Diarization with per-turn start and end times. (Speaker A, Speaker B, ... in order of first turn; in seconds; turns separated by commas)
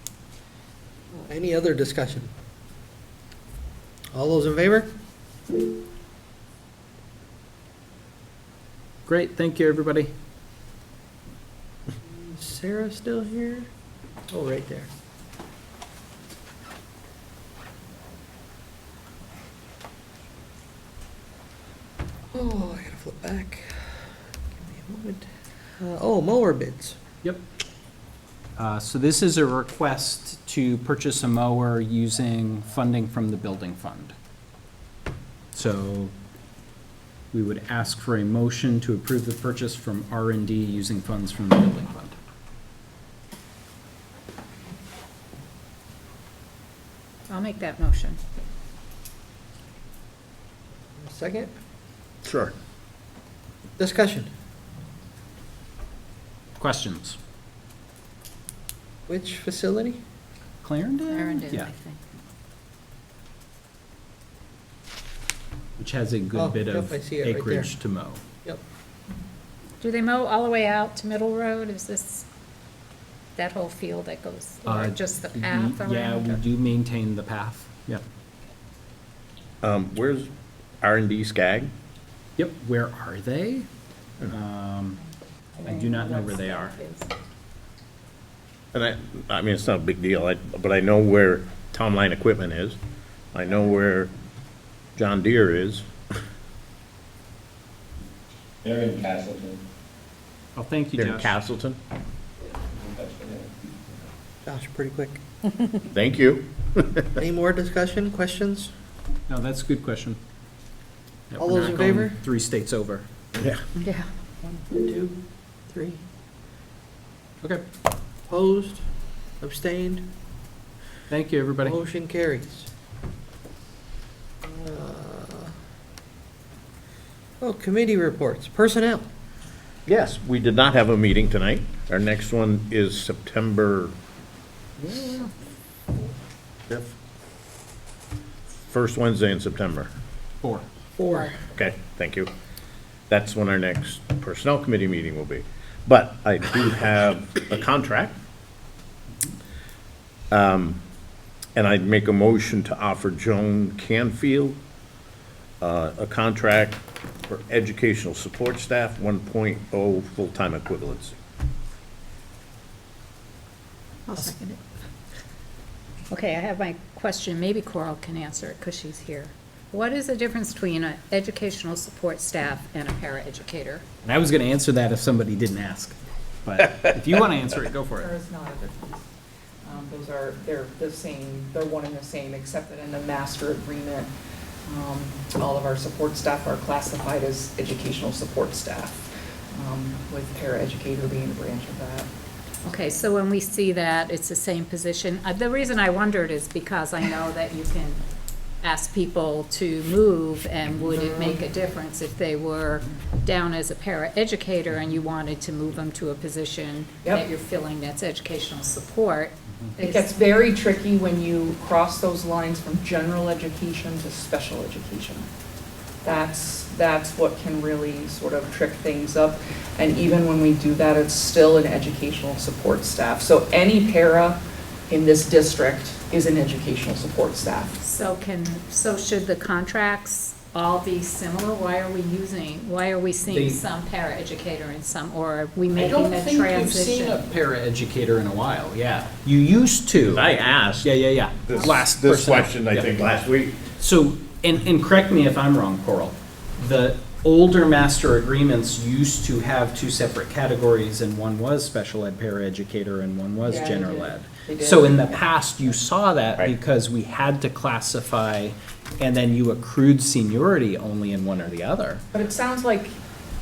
Speaker A: 1.1-2.3, Speaker A: 4.1-4.9, Speaker B: 9.1-10.1, Speaker A: 12.1-13.7, Speaker A: 14.3-14.9, Speaker A: 22.3-23.9, Speaker A: 24.6-25.3, Speaker A: 25.8-27.0, Speaker B: 28.6-34.1, Speaker B: 35.5-36.1, Speaker B: 37.3-42.2, Speaker C: 47.3-48.2, Speaker A: 51.0-51.5, Speaker D: 52.2-52.5, Speaker A: 53.8-54.3, Speaker B: 56.6-57.2, Speaker A: 59.1-60.0, Speaker B: 60.6-61.7, Speaker C: 61.1-62.0, Speaker B: 65.8-68.2, Speaker A: 66.4-67.7, Speaker C: 69.8-72.3, Speaker C: 73.4-76.5, Speaker B: 74.7-78.0, Speaker D: 79.6-80.3, Speaker D: 80.8-81.7, Speaker B: 82.4-83.7, Speaker B: 84.2-85.0, Speaker C: 85.6-87.1, Speaker B: 85.6-86.8, Speaker D: 88.7-92.8, Speaker D: 93.3-94.1, Speaker D: 95.0-95.8, Speaker E: 98.6-99.6, Speaker B: 100.5-101.3, Speaker D: 101.0-101.8, Speaker E: 102.8-103.7, Speaker A: 104.5-105.2, Speaker D: 105.9-107.2, Speaker A: 107.2-108.7, Speaker B: 109.3-110.2, Speaker B: 111.3-113.1, Speaker A: 111.4-112.2, Speaker D: 113.4-113.6, Speaker C: 113.8-114.1, Speaker A: 114.5-115.2, Speaker A: 115.7-116.0, Speaker A: 118.3-118.8, Speaker A: 119.4-120.1, Speaker B: 121.1-121.8, Speaker A: 121.6-122.7, Speaker A: 124.4-125.5, Speaker A: 127.4-129.1, Speaker D: 129.9-133.9, Speaker B: 134.8-135.3, Speaker D: 138.5-139.9, Speaker A: 141.0-141.4, Speaker D: 141.4-142.3, Speaker D: 143.1-148.2, Speaker D: 150.3-150.8, Speaker D: 151.6-154.6, Speaker D: 155.6-161.2, Speaker C: 166.1-173.8, Speaker B: 174.0-178.1, Speaker F: 178.0-179.1, Speaker F: 179.7-184.1, Speaker F: 184.7-192.1, Speaker C: 192.7-198.0, Speaker C: 198.6-210.1, Speaker F: 201.0-201.3, Speaker F: 209.8-215.2, Speaker F: 216.0-227.8, Speaker C: 227.8-237.3, Speaker B: 233.3-233.6, Speaker B: 235.8-240.2, Speaker D: 240.0-240.9, Speaker B: 240.8-243.0, Speaker D: 241.5-243.7, Speaker B: 243.8-262.0, Speaker F: 253.4-255.2, Speaker F: 262.1-262.9